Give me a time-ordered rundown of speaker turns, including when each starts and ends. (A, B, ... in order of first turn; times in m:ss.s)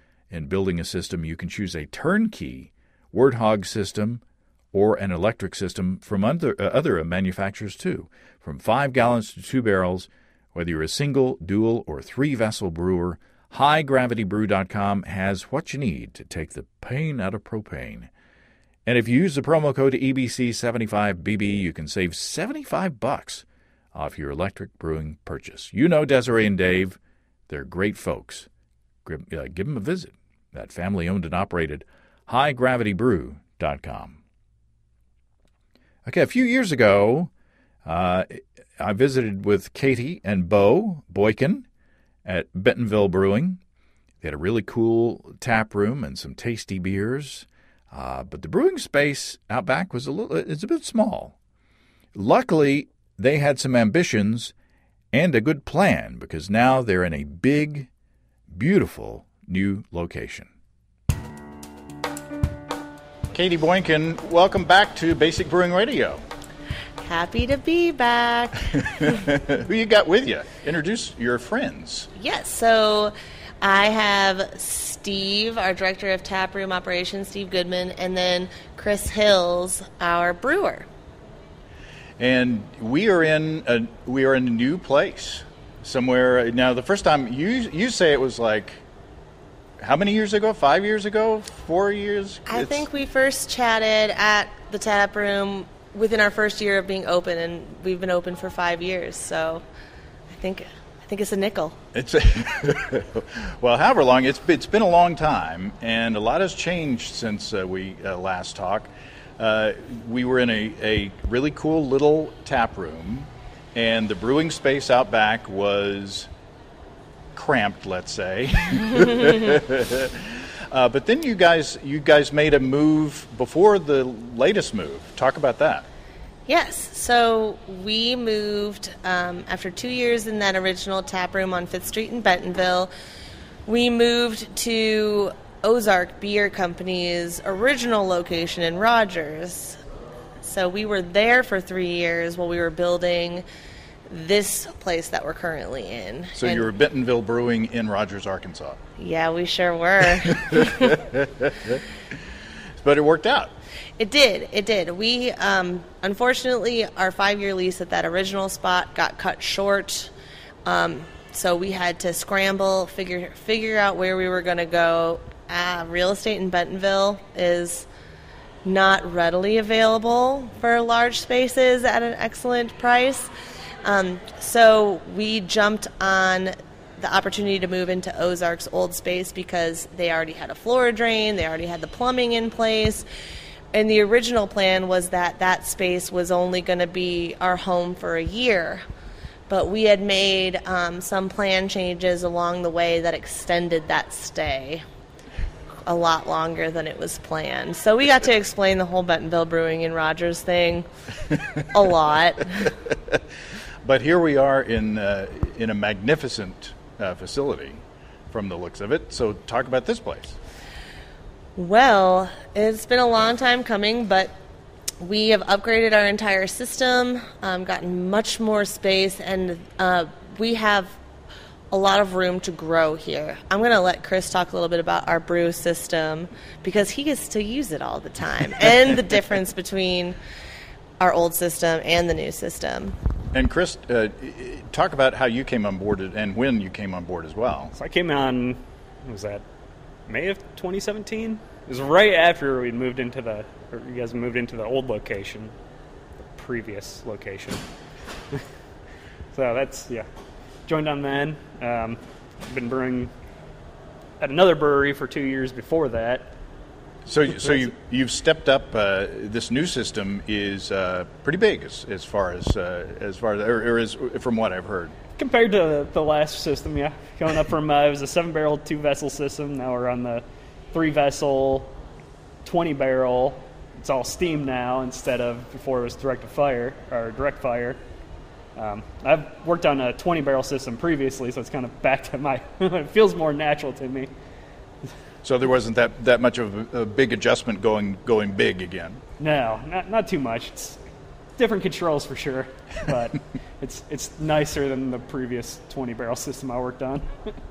0:00.3-0:04.2 A
0:04.7-0:18.1 A
0:18.8-0:27.0 A
0:27.5-0:28.5 A
0:29.0-0:34.2 A
0:36.0-0:37.3 A
0:37.8-0:41.6 A
0:42.2-0:43.6 A
0:44.2-0:51.3 A
0:52.1-0:54.5 A
0:55.1-0:57.9 A
0:58.5-1:00.5 A
1:03.3-1:06.2 A
1:07.0-1:09.1 B
1:08.9-1:12.1 A
1:12.1-1:20.9 B
1:22.2-1:28.8 A
1:29.8-1:32.8 A
1:32.5-1:39.6 B
1:40.3-1:41.8 B
1:41.9-1:56.3 A
1:57.3-2:05.8 A
2:06.5-2:12.9 B
2:13.6-2:19.8 B
2:20.4-2:23.4 B
2:24.1-2:26.7 B
2:26.4-2:28.8 A
2:29.0-2:31.0 B
2:30.4-2:31.8 A
2:32.8-2:33.5 A
2:34.0-2:40.1 B
2:40.6-2:47.9 B
2:48.6-2:53.3 B
2:53.8-3:03.0 B
3:03.7-3:08.8 B
3:09.5-3:14.8 B
3:15.8-3:20.9 B
3:21.7-3:22.7 B
3:23.8-3:30.4 A
3:31.6-3:34.3 B
3:35.0-3:41.0 B
3:41.7-3:50.2 B
3:51.0-3:53.0 B
3:53.3-3:57.7 A
3:57.7-3:59.4 C
4:00.1-4:05.5 C
4:06.2-4:07.6 C
4:09.3-4:10.1 C
4:10.7-4:13.1 C
4:14.2-4:16.3 C
4:17.0-4:24.9 A
4:25.2-4:31.7 C
4:32.4-4:37.8 C
4:38.6-4:44.1 C
4:45.2-4:49.0 A
4:49.2-4:50.8 C
4:51.4-4:57.3 C